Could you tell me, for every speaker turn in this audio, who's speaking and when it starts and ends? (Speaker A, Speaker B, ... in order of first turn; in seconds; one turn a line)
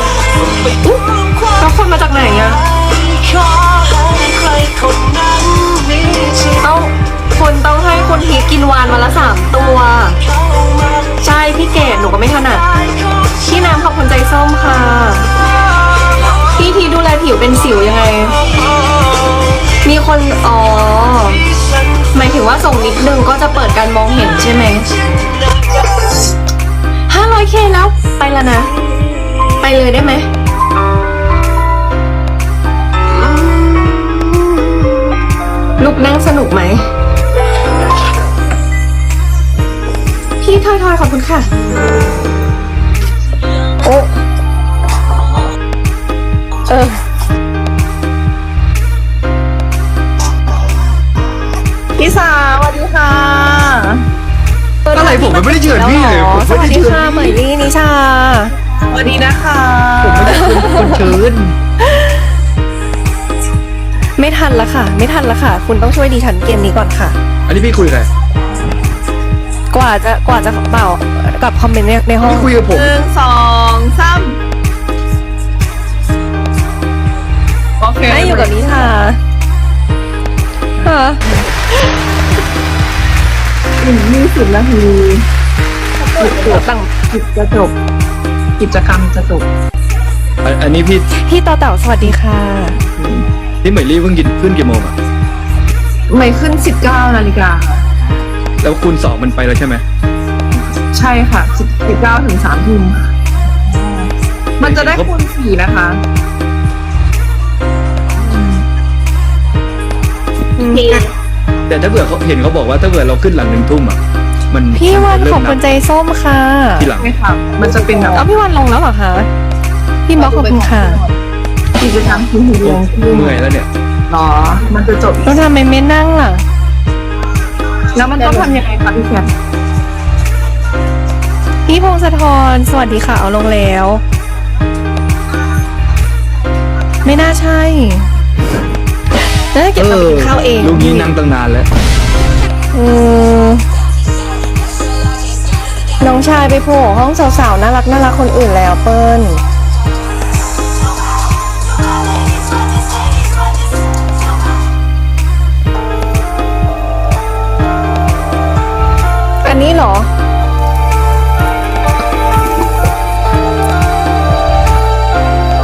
Speaker A: 0.4-1.6
Speaker B: 1.6-2.6
Speaker A: 2.5-6.6
Speaker B: 6.6-10.2
Speaker A: 10.3-11.1
Speaker B: 11.2-12.7
Speaker A: 12.7-13.4
Speaker B: 13.4-15.3
Speaker B: 16.4-18.4
Speaker A: 18.5-19.6
Speaker B: 19.8-21.4
Speaker A: 21.5-22.1
Speaker B: 22.1-24.9
Speaker A: 25.1-25.9
Speaker B: 27.1-28.8
Speaker A: 29.1-29.4
Speaker B: 29.6-30.3
Speaker A: 33.3-34.9
Speaker B: 35.8-36.9
Speaker B: 40.4-41.5
Speaker B: 43.8-44.1
Speaker B: 46.7-47.0
Speaker C: 52.0-54.0
Speaker B: 54.8-58.5
Speaker D: 54.9-57.4
Speaker C: 58.9-60.6
Speaker D: 60.0-61.6
Speaker B: 60.2-61.1
Speaker B: 64.2-67.2
Speaker D: 67.5-68.1
Speaker B: 69.7-72.5
Speaker D: 72.2-72.9
Speaker C: 72.7-74.4
Speaker C: 77.8-78.6
Speaker B: 78.1-79.2
Speaker B: 80.8-81.2
Speaker C: 83.8-85.2
Speaker C: 86.0-87.7
Speaker B: 86.2-86.9
Speaker C: 88.6-89.5
Speaker D: 90.4-91.1
Speaker B: 91.1-92.8
Speaker C: 92.8-93.3
Speaker D: 93.6-94.9
Speaker C: 96.1-97.9
Speaker D: 98.6-99.8
Speaker C: 100.8-106.0
Speaker D: 104.6-105.1
Speaker C: 108.2-108.6
Speaker B: 110.5-111.1
Speaker C: 110.8-111.0
Speaker D: 111.7-115.6
Speaker B: 114.7-116.9
Speaker D: 116.8-117.1
Speaker C: 117.0-118.3
Speaker B: 118.1-119.3
Speaker B: 120.1-121.0
Speaker C: 120.2-121.2
Speaker C: 121.8-123.4
Speaker D: 122.6-123.7
Speaker C: 124.1-125.4
Speaker B: 125.2-126.4
Speaker C: 127.9-129.3
Speaker B: 128.2-128.6
Speaker B: 131.7-134.0
Speaker B: 137.0-138.1
Speaker B: 139.5-141.1
Speaker D: 139.8-141.7
Speaker B: 142.7-143.7
Speaker B: 146.0-149.4
Speaker B: 159.4-160.1